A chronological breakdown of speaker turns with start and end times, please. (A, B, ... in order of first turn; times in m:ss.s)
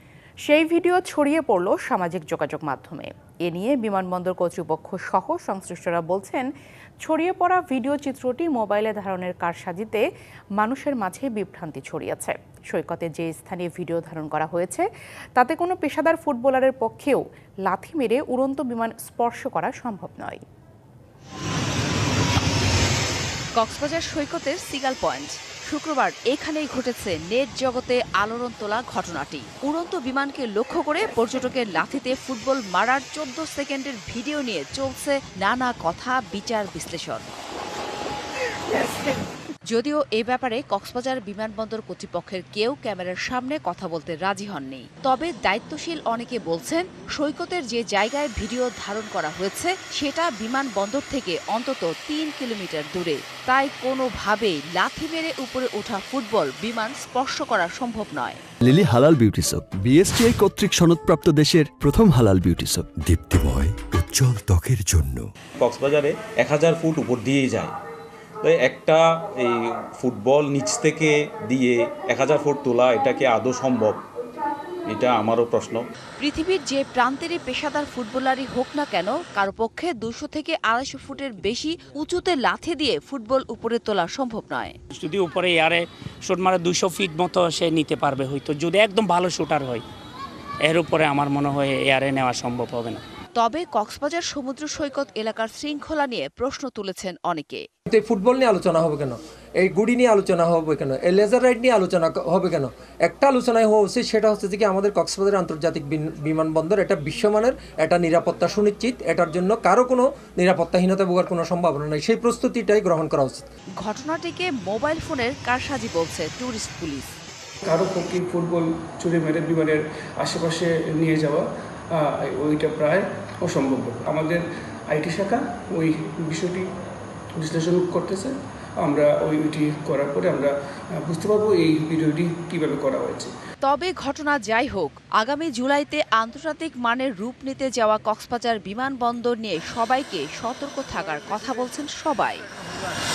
0:00.4-0:06.5 A
0:07.0-0:10.0 A
0:10.6-0:14.9 A
0:15.4-0:20.4 A
0:23.6-0:37.3 B
0:39.7-0:58.4 B
0:58.6-1:02.9 C
1:03.0-1:05.3 D
1:05.6-1:07.7 E
1:08.4-1:14.0 E
1:14.9-1:15.8 E
1:16.2-1:24.8 B
1:24.9-1:29.8 F
1:30.6-1:33.0 F
1:33.4-1:37.7 B
1:37.9-1:53.4 G
1:53.8-1:57.1 B
1:57.6-2:06.7 H
2:07.4-2:13.3 H
2:13.6-2:22.4 B